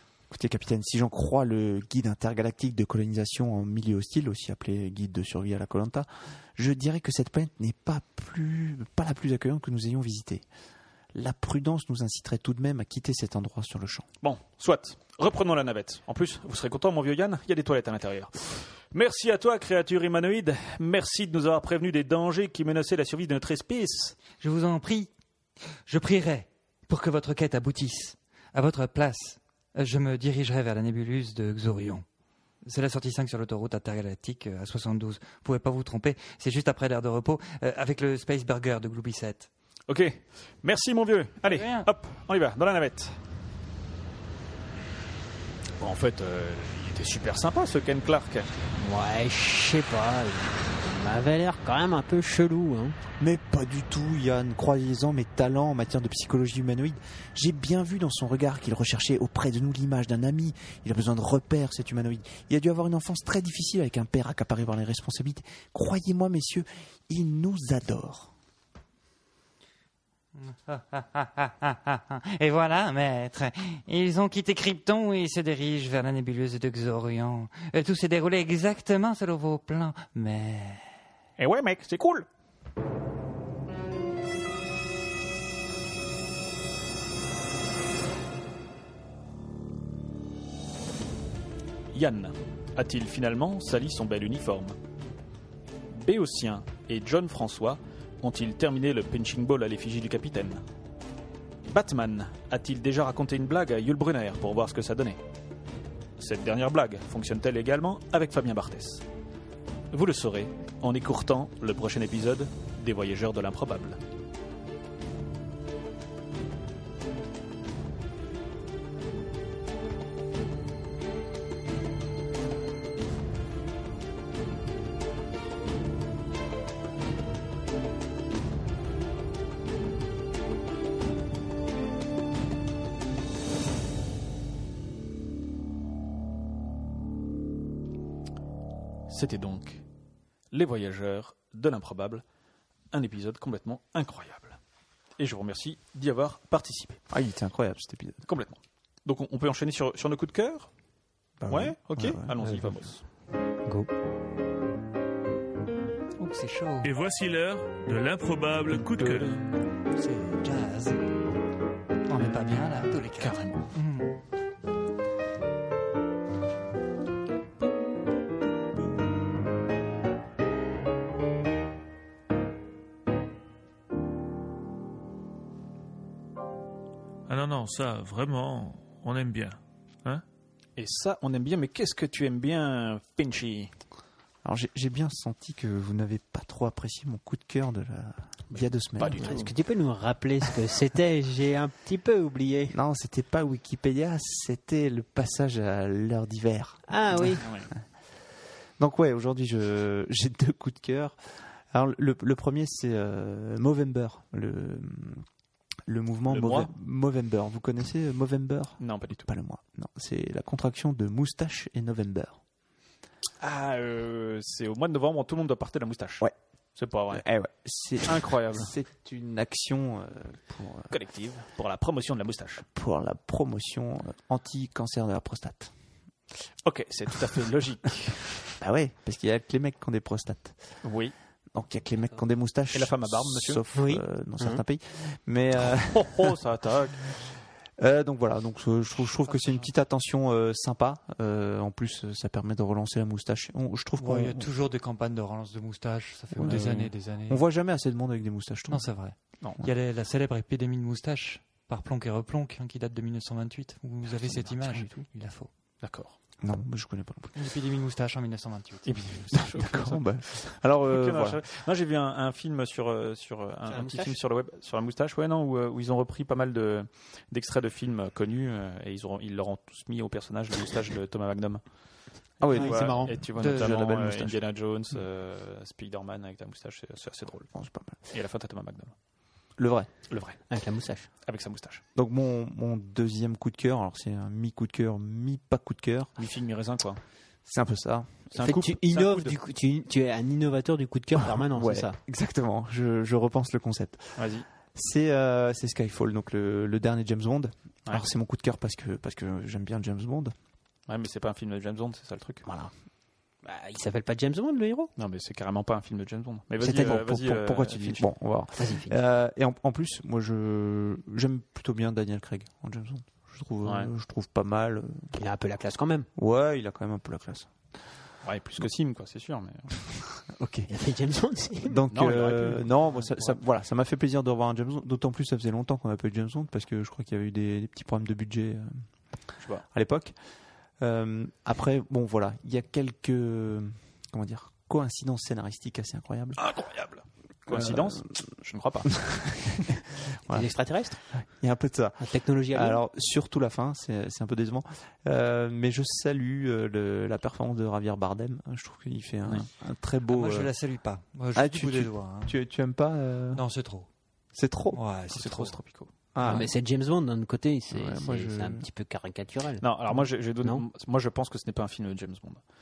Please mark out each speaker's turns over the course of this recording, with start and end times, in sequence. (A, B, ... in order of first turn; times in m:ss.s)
0:00.3-0:10.5 A
0:11.1-0:14.1 A
0:14.2-0:24.2 B
0:24.4-0:25.1 C
0:25.9-0:32.0 C
0:32.6-0:39.5 C
0:39.9-0:43.2 B
0:41.5-0:41.9 C
0:45.8-0:48.5 B
0:48.8-0:53.0 D
0:53.2-1:08.3 A
1:10.4-1:20.9 C
1:21.4-1:22.3 B
1:31.9-1:34.8 B
1:35.9-1:40.6 B
1:41.7-1:45.2 B
1:46.2-1:49.0 B
1:49.9-1:54.0 B
2:19.1-2:19.8 B
2:20.5-2:22.2 B
2:22.9-2:24.6 B
2:25.2-2:27.0 B
2:27.1-2:28.2 A
2:28.2-2:30.7 B
2:31.4-2:32.3 A
2:31.5-2:33.0 B
2:36.2-2:36.9 C
2:36.8-2:39.5 E
2:38.9-2:39.4 B
2:39.9-2:41.0 C
2:42.1-2:44.2 C
2:43.2-2:43.7 B
2:57.3-3:00.2 E
3:00.8-3:03.7 B
3:04.4-3:09.5 A
3:08.5-3:09.5 B
3:09.2-3:12.8 D
3:12.7-3:17.4 A
3:16.9-3:17.5 D
3:17.4-3:17.7 B
3:18.8-3:21.2 A
3:21.7-3:25.2 A
3:25.9-3:32.4 A
3:26.3-3:26.7 B
3:28.8-3:29.3 B
3:33.4-3:36.2 B
3:36.8-3:37.2 B
3:37.1-3:40.9 A
3:38.0-3:38.7 B
3:40.9-3:42.6 B
3:42.8-3:45.7 A
3:46.6-3:48.4 B
3:48.6-3:50.6 A
3:50.8-3:51.1 B
3:51.5-3:56.4 A
3:52.7-3:53.6 B
3:53.7-3:54.6 D
3:55.7-3:57.1 B
3:57.8-4:04.5 A
4:04.0-4:07.4 C
4:06.3-4:08.9 A
4:06.4-4:06.7 B
4:08.7-4:15.5 C
4:14.2-4:14.9 B
4:15.8-4:16.2 B
4:16.4-4:17.4 A
4:17.4-4:19.3 C
4:18.9-4:31.6 B
4:19.3-4:21.4 A
4:23.7-4:24.2 D
4:32.4-4:33.2 A
4:32.5-4:37.5 B
4:32.5-4:33.2 D
4:33.4-4:34.1 C
4:37.5-4:38.0 A
4:38.1-4:38.9 B
4:39.6-4:39.9 A
4:40.1-4:40.4 B
4:40.5-4:41.1 D
4:41.2-4:41.8 B
4:42.0-4:46.1 A
4:46.2-4:47.0 B
4:47.4-4:48.3 A
4:48.3-4:49.3 B
4:48.4-4:52.0 D
4:51.4-5:00.3 A
4:54.2-4:54.5 B
5:00.9-5:02.4 B
5:03.4-5:04.9 D
5:05.0-5:08.1 B
5:06.6-5:15.2 A
5:08.6-5:09.0 D
5:13.6-5:13.9 B
5:15.2-5:16.1 D
5:16.2-5:17.5 A
5:18.2-5:20.2 B
5:20.3-5:20.7 A
5:20.7-5:21.8 D
5:21.6-5:28.8 A
5:21.9-5:23.4 B
5:29.7-5:30.1 A
5:30.8-5:36.4 A
5:36.4-5:39.7 B
5:37.5-5:38.0 A
5:40.3-5:50.5 A
5:40.3-5:41.0 D
5:42.0-5:42.8 D
5:50.1-5:52.4 C
5:51.3-5:53.4 A
5:53.3-5:53.9 C
5:54.3-5:54.8 A
5:54.7-5:55.6 C
5:55.1-5:55.9 B
5:56.1-5:56.5 A
5:56.2-5:59.7 D
5:57.7-5:58.7 A
5:59.6-6:02.4 B